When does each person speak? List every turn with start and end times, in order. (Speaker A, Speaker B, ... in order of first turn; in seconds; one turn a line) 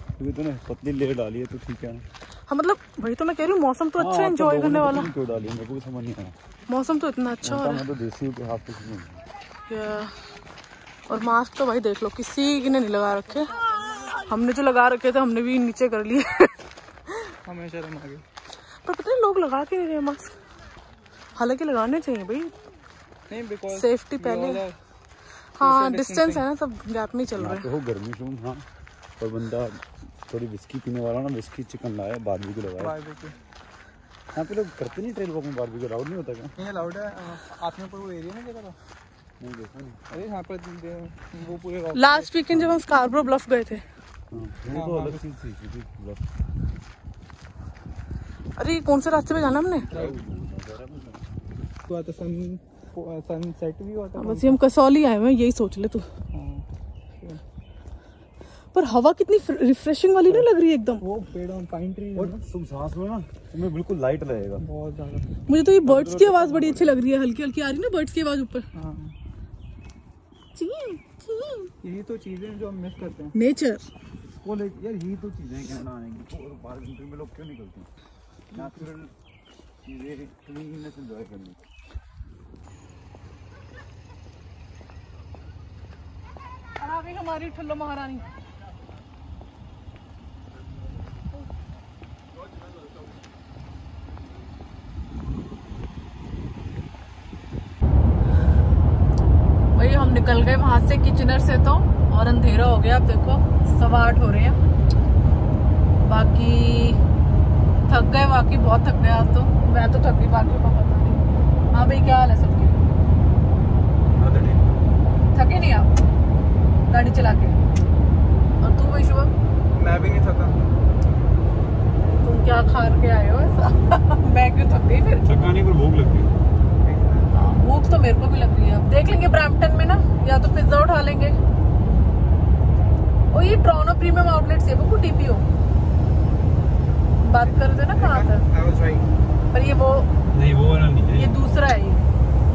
Speaker A: 0.2-2.0
Speaker B: 2.5-5.1
Speaker A: 4.0-6.3
Speaker B: 6.7-7.8
Speaker A: 7.4-9.2
Speaker B: 9.7-10.1
Speaker B: 11.1-16.5
Speaker C: 17.4-18.2
Speaker B: 18.8-20.4
Speaker B: 21.4-22.5
Speaker C: 23.3-24.8
Speaker B: 23.7-24.6
Speaker B: 25.6-27.6
Speaker C: 25.6-26.4
Speaker A: 27.4-28.6
Speaker A: 29.2-33.0
Speaker C: 32.8-33.4
Speaker A: 34.3-36.5
Speaker C: 36.6-38.8
Speaker A: 39.4-40.2
Speaker C: 40.1-42.3
Speaker B: 41.9-43.8
Speaker A: 44.3-46.2
Speaker C: 44.7-45.2
Speaker B: 48.6-49.9
Speaker A: 49.8-51.2
Speaker C: 51.9-54.6
Speaker B: 54.2-56.1
Speaker C: 56.3-56.6
Speaker B: 58.7-61.0
Speaker C: 61.0-62.4
Speaker A: 62.1-64.6
Speaker C: 64.6-65.3
Speaker B: 65.5-68.7
Speaker A: 65.8-67.0
Speaker C: 68.7-69.1
Speaker B: 70.5-71.7
Speaker C: 71.8-73.3
Speaker B: 73.3-73.8
Speaker A: 74.2-77.9
Speaker A: 78.5-79.1
Speaker A: 79.8-81.6
Speaker B: 86.8-88.2
Speaker B: 99.7-104.6
Speaker B: 106.0-107.0
Speaker B: 107.9-112.8
Speaker A: 114.1-114.7
Speaker B: 115.3-116.0
Speaker B: 116.9-117.6
Speaker B: 118.6-119.3
Speaker C: 119.8-120.5
Speaker B: 122.2-125.5
Speaker A: 125.2-126.3
Speaker C: 126.8-127.4
Speaker B: 127.3-131.4
Speaker B: 133.3-135.5
Speaker B: 137.2-138.5
Speaker C: 137.9-139.1
Speaker B: 139.5-140.1
Speaker A: 140.3-141.4
Speaker B: 141.1-142.0